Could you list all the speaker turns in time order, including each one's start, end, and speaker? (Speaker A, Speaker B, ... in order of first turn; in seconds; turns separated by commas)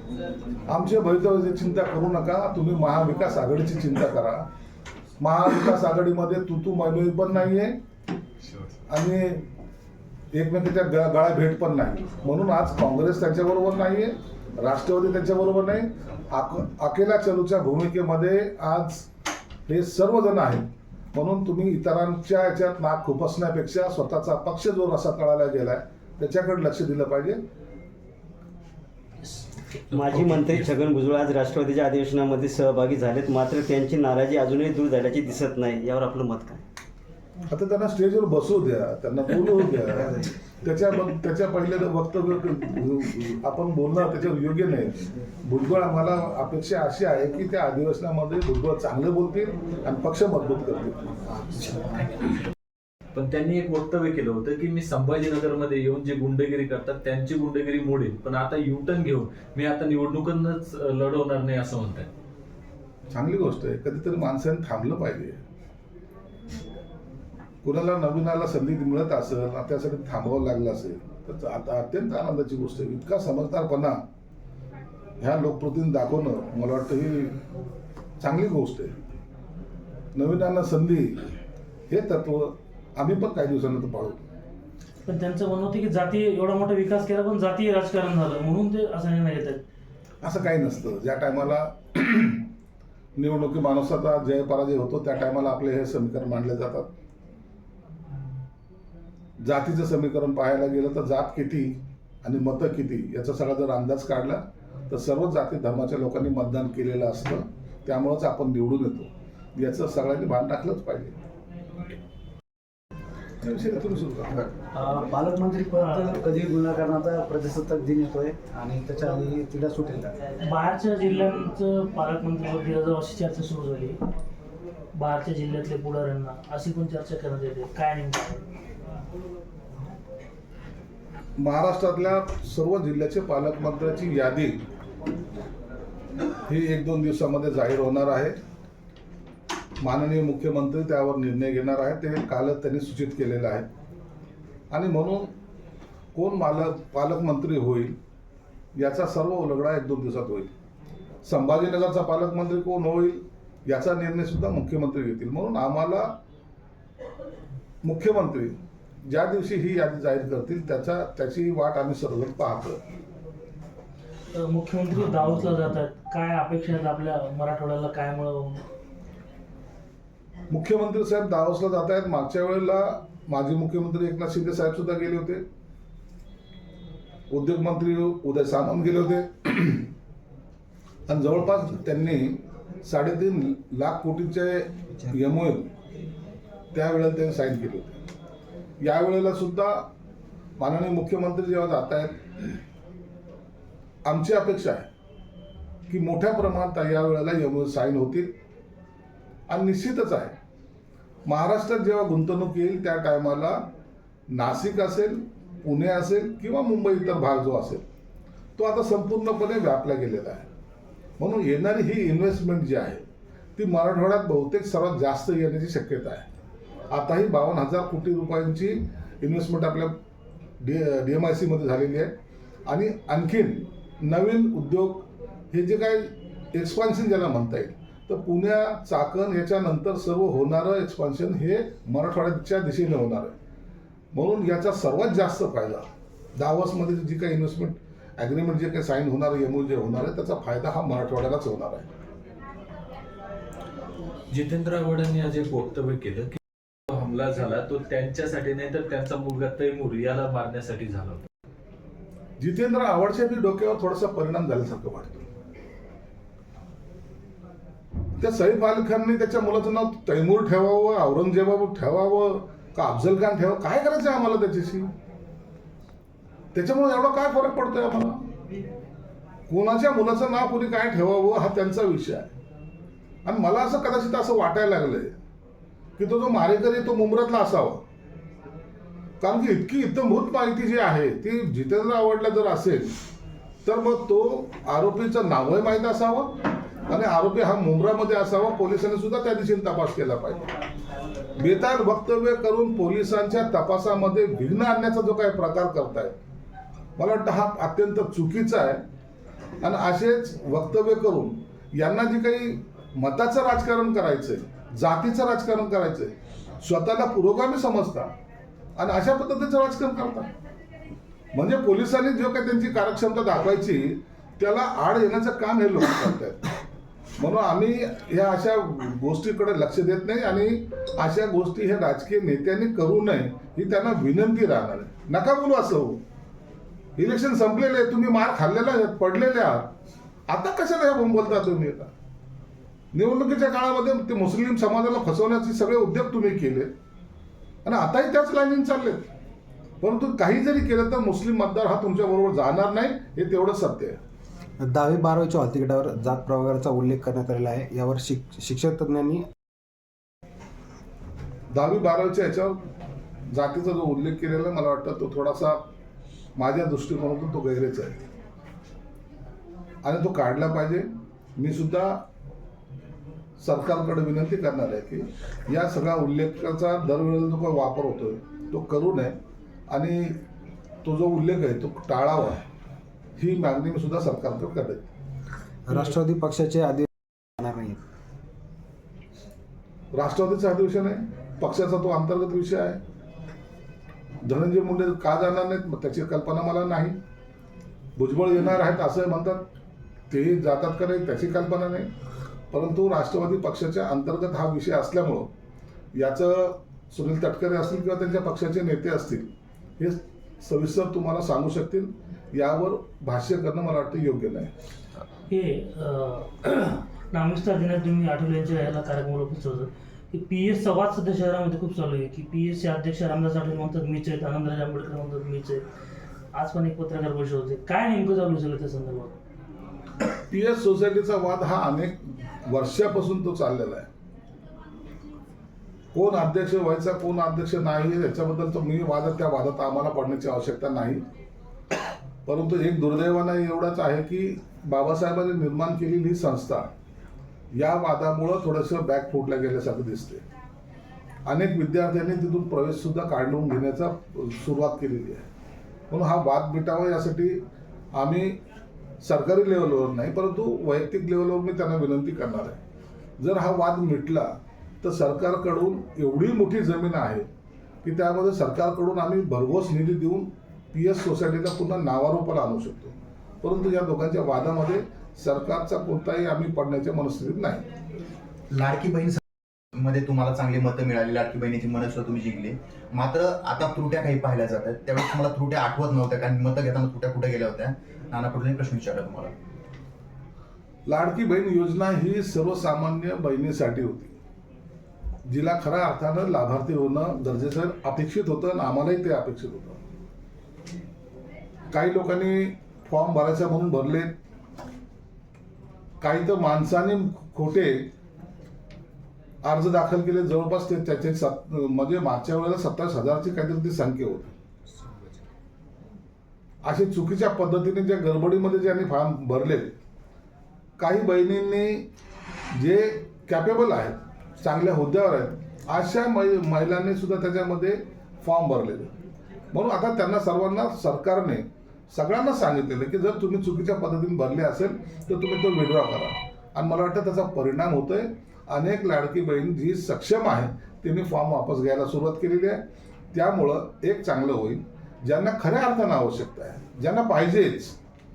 Speaker A: 0.7-4.4, Speaker A: 5.2-7.8, Speaker A: 8.9-9.4, Speaker A: 10.3-19.1, Speaker A: 19.7-27.4, Speaker B: 29.9-30.7, Speaker C: 29.9-36.6, Speaker A: 37.5-51.1, Speaker B: 53.1-62.1, Speaker A: 63.1-65.4, Speaker A: 67.6-74.0, Speaker A: 75.2-77.4, Speaker A: 78.2-79.0, Speaker A: 80.2-81.3, Speaker A: 81.9-84.2, Speaker D: 85.1-89.6, Speaker A: 90.2-92.5, Speaker A: 93.2-96.9, Speaker A: 99.4-111.2, Speaker A: 113.4-114.5, Speaker E: 114.8-120.1, Speaker D: 115.8-116.2, Speaker D: 120.4-124.0, Speaker D: 124.9-128.4, Speaker A: 131.4-134.6, Speaker A: 136.4-138.3, Speaker A: 139.8-143.7, Speaker A: 144.7-145.3, Speaker A: 146.1-148.0, Speaker A: 148.8-150.5, Speaker A: 151.2-156.1, Speaker A: 157.8-162.8, Speaker D: 164.3-168.7, Speaker A: 170.5-175.4, Speaker A: 177.3-179.9, Speaker A: 181.1-185.7, Speaker A: 186.7-188.0, Speaker A: 188.8-189.9, Speaker A: 190.6-192.2, Speaker A: 194.1-194.9, Speaker A: 195.9-198.3, Speaker A: 199.5-200.3, Speaker A: 201.3-203.7, Speaker A: 204.3-207.8, Speaker A: 208.6-210.5, Speaker A: 211.2-213.0, Speaker A: 213.6-216.3, Speaker A: 216.9-220.0, Speaker A: 220.6-222.1, Speaker A: 222.7-233.3, Speaker A: 234.1-235.9, Speaker A: 236.4-241.9, Speaker B: 244.3-246.4, Speaker B: 246.9-251.2, Speaker A: 252.4-255.3, Speaker A: 258.2-264.9, Speaker A: 266.5-268.3, Speaker A: 269.5-272.3, Speaker A: 273.2-275.2, Speaker A: 276.0-277.8, Speaker A: 279.2-282.9, Speaker A: 283.6-290.5, Speaker A: 291.4-296.2, Speaker A: 297.0-298.8, Speaker A: 299.6-308.1, Speaker A: 308.8-310.3, Speaker A: 311.3-316.4, Speaker A: 317.2-326.0, Speaker A: 327.0-329.7, Speaker A: 330.3-331.9, Speaker A: 332.9-336.7, Speaker A: 337.6-339.1, Speaker A: 339.8-344.0, Speaker F: 344.6-349.2, Speaker A: 351.5-352.6, Speaker A: 353.3-355.6, Speaker A: 356.4-358.0, Speaker A: 359.8-362.0, Speaker A: 363.4-369.2, Speaker A: 369.7-370.2, Speaker A: 370.9-372.4, Speaker A: 373.2-374.9, Speaker F: 375.7-377.8, Speaker A: 379.9-382.8, Speaker A: 384.2-387.0, Speaker A: 388.0-389.4, Speaker A: 390.1-391.9, Speaker A: 392.5-395.3, Speaker A: 396.0-404.5, Speaker D: 405.3-415.6, Speaker D: 416.3-419.1, Speaker A: 420.3-423.9, Speaker A: 425.9-431.0, Speaker A: 432.3-436.7, Speaker A: 437.6-440.2, Speaker A: 441.3-445.3, Speaker A: 445.9-447.4, Speaker A: 448.0-448.4, Speaker A: 449.0-452.6, Speaker A: 453.2-454.3, Speaker A: 454.8-457.3, Speaker A: 457.8-467.7, Speaker G: 468.5-469.2, Speaker G: 469.7-479.3, Speaker A: 480.9-484.2, Speaker A: 485.3-489.8, Speaker A: 491.7-494.1, Speaker A: 496.0-497.9, Speaker A: 499.4-504.3, Speaker A: 506.6-509.8, Speaker A: 510.8-511.9, Speaker A: 512.5-518.9, Speaker A: 519.5-532.6, Speaker A: 533.1-537.8